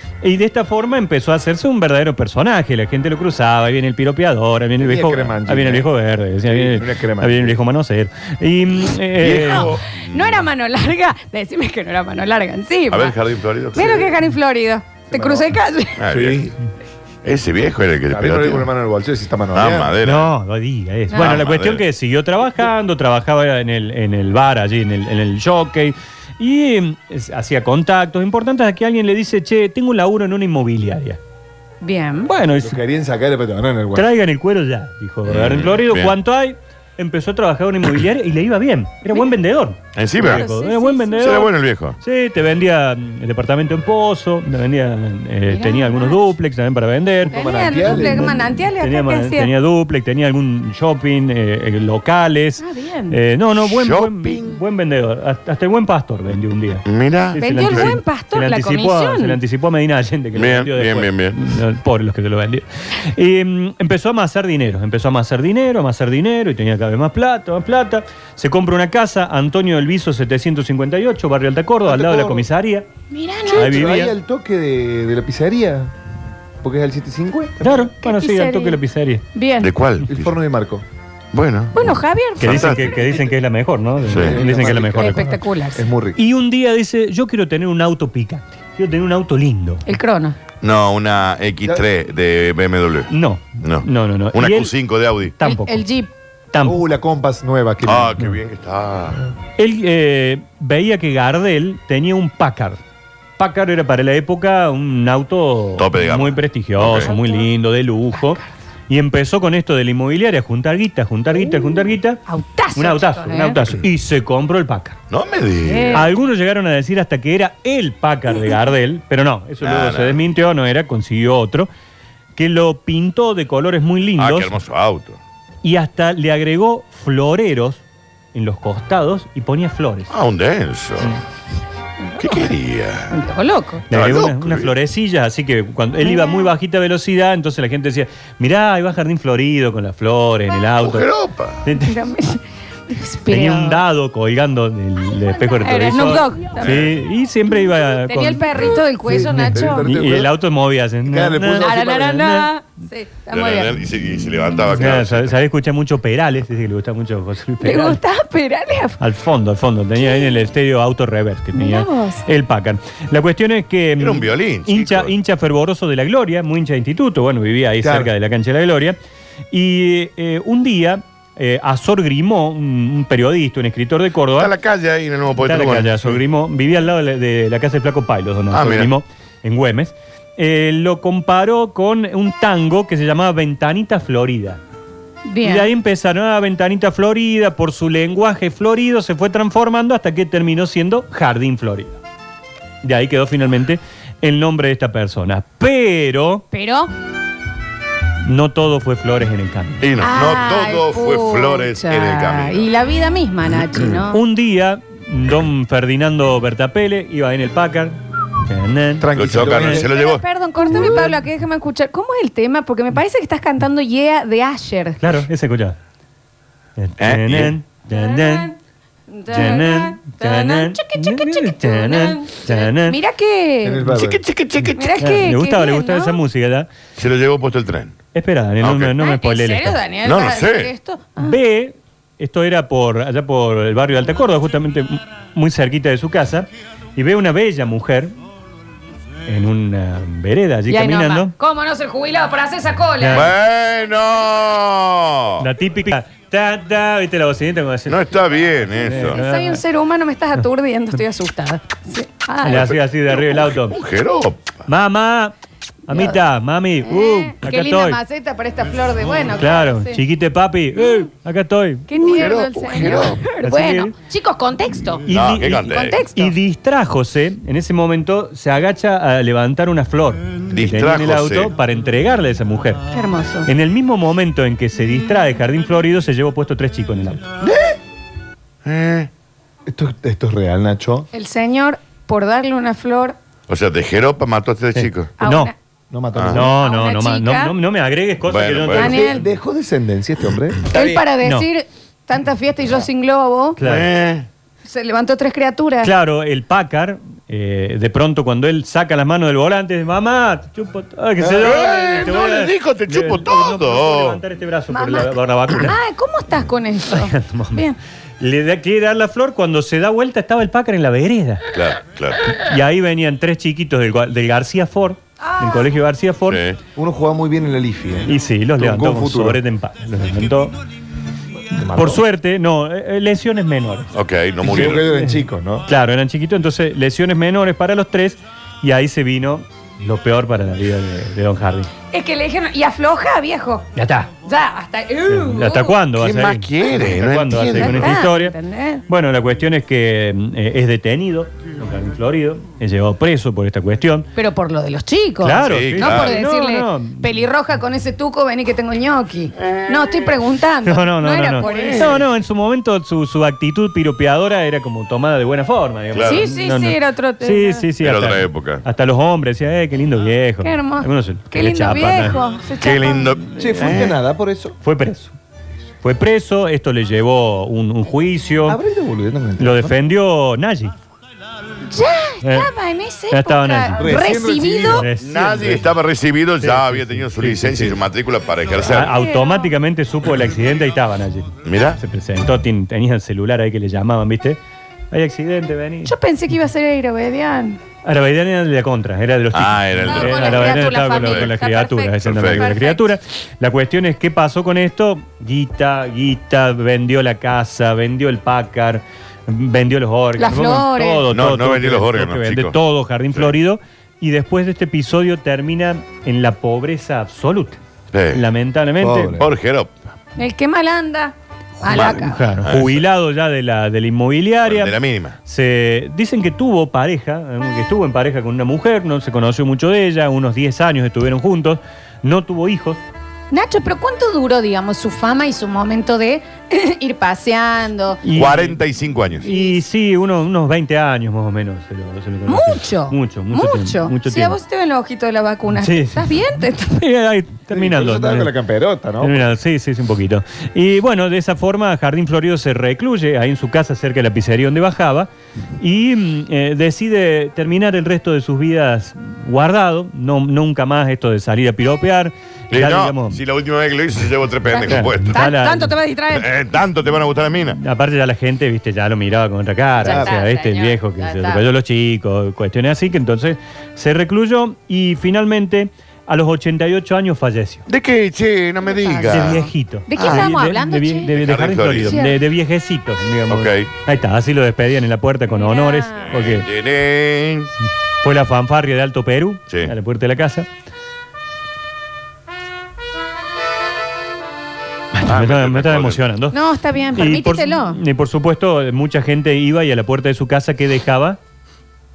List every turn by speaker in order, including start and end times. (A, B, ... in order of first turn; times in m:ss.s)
0:00.2-0:09.7 A
0:04.8-0:05.9 B
0:06.4-0:07.6 B
0:09.2-0:10.4 C
0:09.4-0:13.2 D
0:12.9-0:14.1 C
0:13.7-0:16.0 D
0:15.1-0:15.5 B
0:16.0-0:16.5 C
0:16.1-0:16.5 B
0:17.2-0:18.7 C
0:18.1-0:20.0 B
0:19.5-0:20.3 C
0:20.0-0:31.2 A
0:21.1-0:21.4 D
0:21.1-0:21.8 C
0:31.8-0:32.3 D
0:32.3-0:32.8 A
0:32.6-0:34.1 B
0:34.0-0:41.5 A
0:35.3-0:36.2 C
0:40.0-0:40.4 C
0:40.2-0:41.5 D
0:41.2-0:42.0 C
0:42.0-1:12.9 A
0:45.5-0:46.2 D
0:47.2-0:48.4 B
0:47.3-0:49.5 D
0:52.6-0:53.2 D
0:53.6-0:54.6 C
0:56.8-0:58.0 C
0:57.4-0:59.4 D
1:00.4-1:01.4 C
1:11.9-1:12.5 B
1:13.1-1:13.7 D
1:13.5-1:15.9 B
1:13.5-1:14.1 A
1:16.6-1:17.9 B
1:17.6-1:19.2 A
1:18.0-1:18.8 D
1:19.3-1:19.7 D
1:19.6-1:20.4 C
1:20.0-1:20.8 B
1:21.3-1:21.9 C
1:21.7-1:23.0 D
1:22.4-1:25.4 A
1:22.4-1:23.1 C
1:24.0-1:26.2 B
1:24.1-1:24.4 C
1:24.8-1:25.8 D
1:26.2-1:29.8 A
1:29.9-1:30.4 D
1:30.6-1:33.1 C
1:33.1-1:34.7 A
1:33.6-1:35.4 C
1:35.4-1:35.8 A
1:35.4-1:36.1 D
1:36.5-1:36.8 A
1:36.6-1:38.2 B
1:37.8-1:39.3 C
1:39.6-1:42.8 A
1:43.4-1:52.2 A
1:45.8-1:47.1 C
1:47.1-1:47.5 D
1:52.3-1:53.6 D
1:52.8-1:55.0 A
1:55.1-1:56.0 C
1:55.6-1:56.1 D
1:55.9-2:01.7 A
1:59.6-2:00.2 C
2:02.4-2:04.5 A
2:04.2-2:05.2 C
2:05.6-2:07.8 A
2:08.3-2:10.1 A
2:10.1-2:11.1 C
2:12.2-2:12.5 D
2:12.2-2:13.2 C
2:13.1-2:13.8 D
2:13.9-2:21.1 A
2:13.9-2:14.7 C
2:16.0-2:16.5 D
2:20.8-2:21.6 C
2:21.6-2:22.0 A
2:21.8-2:23.8 D
2:23.3-2:28.7 A
2:25.5-2:26.8 D
2:26.6-2:27.0 C
2:27.6-2:29.9 D
2:29.0-2:30.3 B
2:29.8-2:32.5 A
2:31.0-2:31.9 B
2:31.6-2:33.8 D
2:33.3-2:35.4 C
2:34.7-2:38.0 A
2:37.6-2:39.0 D
2:39.0-2:49.0 A
2:40.0-2:40.4 D
2:41.6-2:42.2 D
2:44.0-2:45.1 C
2:47.8-2:48.1 B
2:49.5-2:54.5 A
2:54.4-2:56.2 C
2:55.4-3:04.6 A
2:58.5-2:58.9 C
3:05.3-3:05.7 D
3:05.4-3:12.0 A
3:12.8-3:16.4 A
3:16.5-3:16.9 D
3:18.2-3:19.8 A
3:19.8-3:22.7 C
3:20.0-3:24.2 D
3:24.1-3:29.8 A
3:29.0-3:29.9 B
3:29.1-3:30.2 C
3:29.6-3:35.0 D
3:30.6-3:31.2 A
3:35.0-3:35.8 A
3:36.8-3:38.5 A
3:37.0-3:37.6 C
3:37.9-3:38.5 D
3:39.1-3:43.9 D
3:39.3-3:43.0 A
3:43.6-3:44.2 B
3:43.9-3:45.1 C
3:44.8-3:46.2 D
3:45.0-3:46.7 A
3:47.0-3:48.0 C
3:48.1-3:49.8 A
3:48.6-3:49.0 C
3:49.0-3:51.4 D
3:50.0-3:50.7 C
3:51.2-3:58.1 A
3:59.3-4:01.3 A
4:00.7-4:03.3 D
4:03.0-4:03.3 A
4:03.1-4:05.5 C
4:05.4-4:08.1 A
4:07.9-4:09.2 C
4:08.8-4:09.6 A
4:09.1-4:12.7 D
4:12.4-4:13.8 A
4:12.5-4:14.6 C
4:14.7-4:15.3 A
4:15.9-4:18.0 A
4:15.9-4:16.2 D
4:16.9-4:20.0 D
4:19.4-4:22.2 A
4:21.9-4:26.4 D
4:22.1-4:23.2 C
4:22.9-4:23.9 A
4:25.0-4:32.8 A
4:25.1-4:26.0 C
4:30.5-4:31.5 C
4:32.9-4:33.5 D
4:33.5-4:37.2 A
4:37.4-4:37.8 B
4:38.6-4:39.1 C
4:39.7-4:41.1 B
4:41.1-4:43.2 D
4:43.5-4:45.1 C
4:44.8-4:45.5 A
4:45.2-4:45.5 D
4:45.9-4:46.5 B
4:46.2-4:46.4 C
4:46.3-4:49.2 A
4:46.4-4:47.5 D
4:48.3-4:49.0 C
4:48.7-4:49.2 D
4:48.8-4:50.6 B
4:50.7-4:53.6 D
4:51.2-4:51.5 A
4:53.6-4:53.9 A
4:53.6-4:54.3 C
4:54.6-4:55.9 D
4:55.8-5:05.8 A
5:01.2-5:04.2 C
5:04.7-5:07.8 D
5:06.9-5:07.6 A
5:08.2-5:11.5 A
5:11.5-5:12.4 C
5:12.3-5:16.4 A
5:15.2-5:15.7 D
5:16.3-5:16.6 C
5:16.8-5:19.4 B
5:18.1-5:20.5 A
5:21.5-5:22.0 B
5:21.7-5:23.9 A
5:23.9-5:24.8 C
5:24.4-5:25.7 B
5:24.6-5:31.7 A
5:31.9-5:33.7 D
5:33.8-5:34.1 A
5:34.2-5:35.8 D
5:35.1-5:38.4 A
5:36.0-5:38.0 C
5:37.6-5:38.8 D
5:38.9-5:44.1 A
5:44.2-5:52.0 D
5:45.2-5:47.1 A
5:45.4-5:46.2 C
5:49.4-5:50.2 C
5:50.7-6:02.2 A
5:51.4-5:52.0 C
5:55.9-5:56.2 C
5:56.0-5:57.7 D
5:57.8-5:58.6 C
6:00.4-6:03.1 D
6:02.6-6:04.0 C
6:03.4-6:03.9 A
6:03.4-6:04.6 B
6:04.6-6:05.2 A
6:05.8-6:08.6 A
6:08.5-6:09.7 B
6:09.4-6:10.8 A
6:11.7-6:14.9 D
6:12.2-6:12.5 A
6:13.1-6:14.0 A
6:13.8-6:14.9 B
6:14.7-6:15.7 A
6:15.0-6:19.0 C
6:16.4-6:17.8 A
6:18.6-6:24.4 A
6:18.8-6:19.5 D
6:21.4-6:21.8 C
6:24.9-6:25.9 A
6:25.9-6:27.6 D
6:27.8-6:47.6 A
6:29.3-6:31.3 C
6:29.8-6:32.9 D
6:32.0-6:32.5 C
6:40.2-6:41.1 D
6:41.1-6:42.6 C
6:47.9-6:48.2 C
6:48.1-6:49.2 A
6:48.8-6:49.3 B
6:49.2-6:49.7 C
6:50.2-6:52.2 D
6:51.6-6:54.7 A
6:51.7-6:52.8 C
6:54.4-6:55.2 C
6:55.2-7:02.8 A
7:03.3-7:08.0 D
7:08.0-7:08.6 A
7:08.1-7:09.3 C
7:09.2-7:14.4 A
7:09.2-7:09.6 D
7:12.3-7:16.8 D
7:15.6-7:16.1 A
7:16.7-7:18.3 A
7:17.5-7:19.3 B
7:19.0-7:33.2 A
7:32.5-7:35.2 C
7:34.5-7:36.3 D
7:34.7-7:35.7 A
7:36.1-7:37.6 C
7:37.6-7:47.7 A
7:39.8-7:41.4 D
7:47.7-7:49.4 C
7:48.6-7:51.2 D
7:49.1-7:56.5 A
7:50.0-7:50.3 C
7:51.2-7:52.0 C
7:51.8-7:52.2 D
7:53.3-7:53.7 C
7:55.3-7:56.1 D
7:56.1-7:57.5 C
7:58.0-8:00.5 A
8:04.9-8:06.4 A
8:05.1-8:06.0 C
8:06.3-8:07.8 D
8:07.0-8:11.2 A